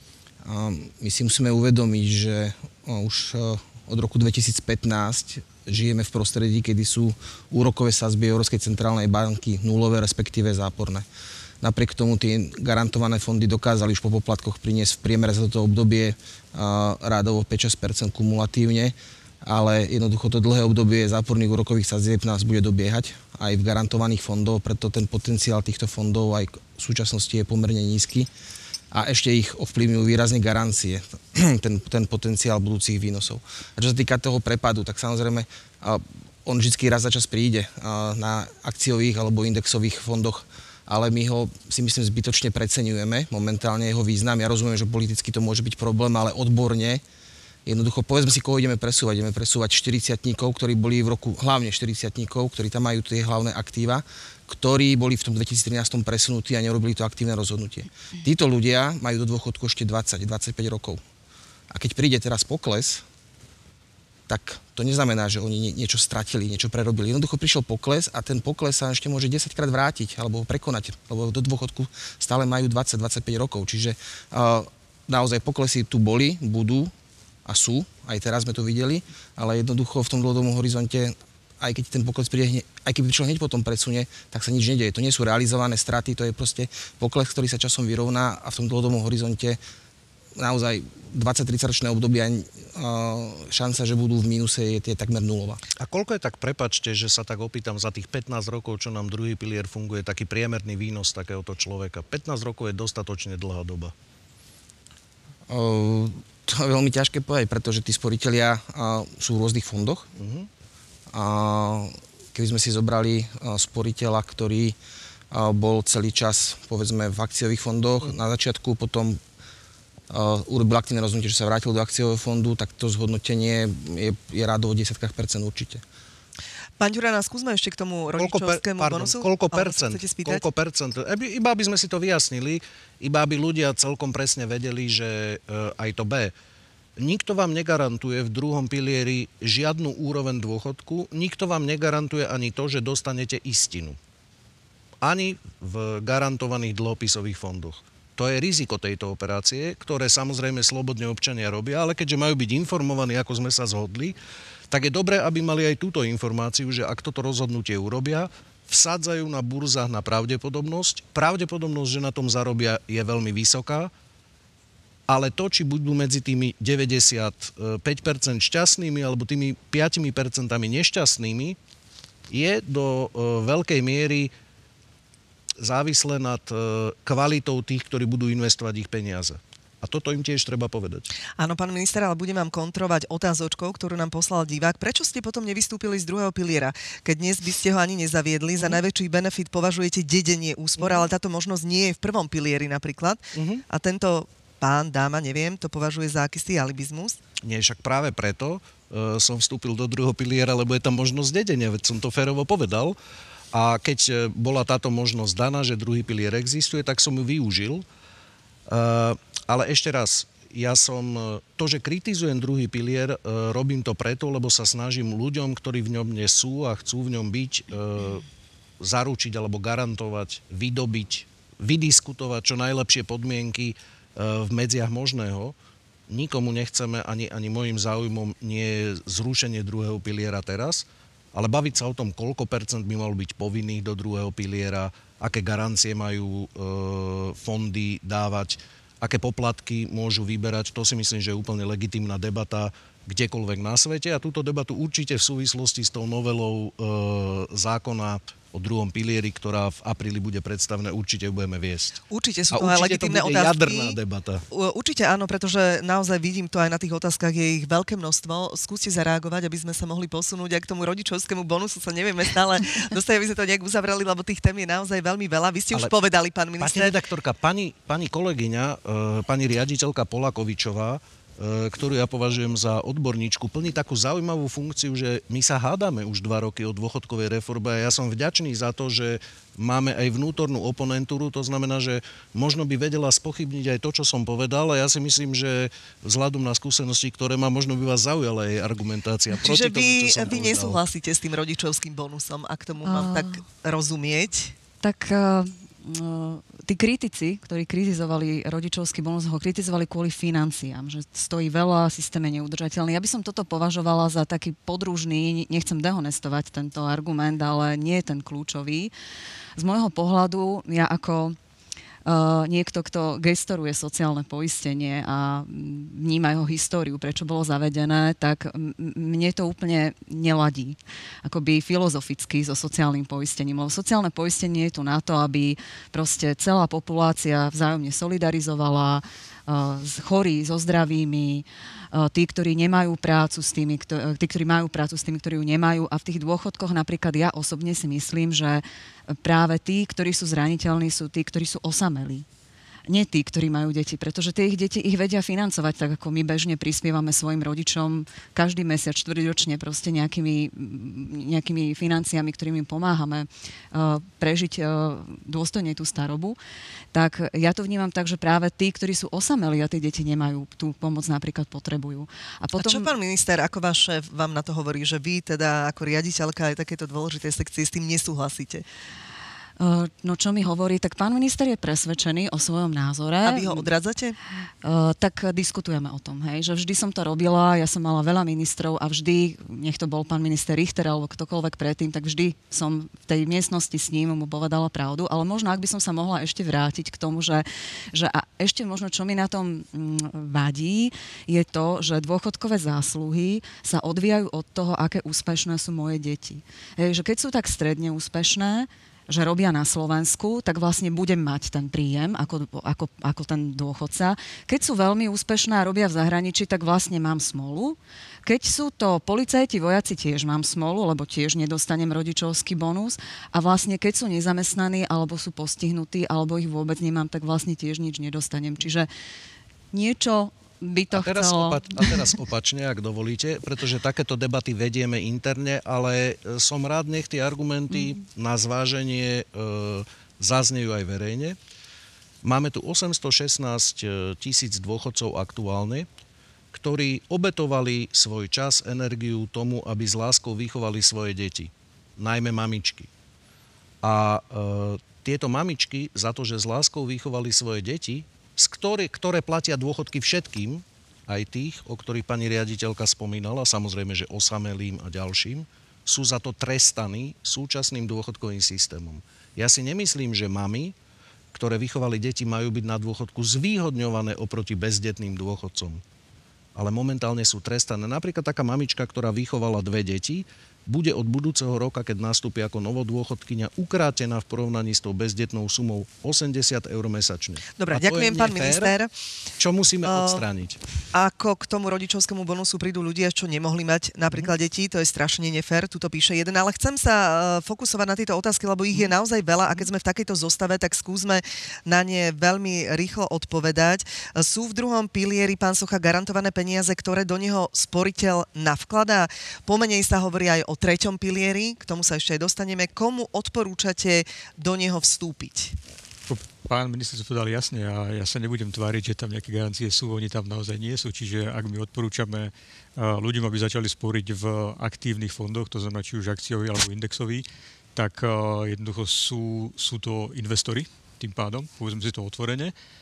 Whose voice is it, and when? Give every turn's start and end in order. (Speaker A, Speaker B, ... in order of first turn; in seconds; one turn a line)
Speaker A: 0.4-11.1
Speaker A: 11.6-28.3
Speaker A: 28.9-47.0
Speaker A: 47.7-61.0
Speaker A: 61.7-63.0
Speaker A: 64.3-76.9
Speaker A: 77.5-89.6
Speaker A: 90.4-95.6
Speaker B: 95.8-103.9
Speaker A: 105.5-110.1
Speaker B: 110.2-110.5
Speaker A: 111.1-114.8
Speaker A: 115.3-119.2
Speaker A: 120.1-125.8
Speaker C: 126.8-130.4
Speaker B: 128.2-136.3
Speaker B: 137.0-144.0
Speaker B: 145.0-154.2
Speaker B: 154.7-163.9
Speaker B: 165.1-171.6
Speaker B: 172.3-174.3
Speaker B: 175.6-181.1
Speaker C: 181.4-197.2
Speaker B: 193.3-193.6
Speaker B: 197.4-203.0
Speaker B: 203.5-207.8
Speaker B: 208.7-218.2
Speaker B: 218.8-225.6
Speaker B: 226.1-252.0
Speaker C: 252.1-254.0
Speaker B: 252.5-254.4
Speaker C: 254.5-267.0
Speaker B: 266.6-290.8
Speaker C: 289.3-294.6
Speaker D: 292.8-293.4
Speaker D: 294.8-308.9
Speaker D: 309.6-311.4
Speaker D: 312.1-338.6
Speaker D: 339.2-342.2
Speaker D: 342.9-356.4
Speaker D: 356.9-362.9
Speaker C: 362.6-368.6
Speaker D: 369.6-373.7
Speaker C: 373.2-374.2
Speaker D: 374.6-418.9
Speaker D: 419.7-422.1
Speaker B: 420.9-431.4
Speaker B: 432.2-435.9
Speaker B: 436.5-442.9
Speaker B: 443.8-460.8
Speaker B: 461.3-465.8
Speaker B: 466.6-478.8
Speaker C: 477.6-478.9
Speaker B: 479.4-480.6
Speaker C: 479.9-480.2
Speaker C: 480.9-505.6
Speaker E: 506.1-522.5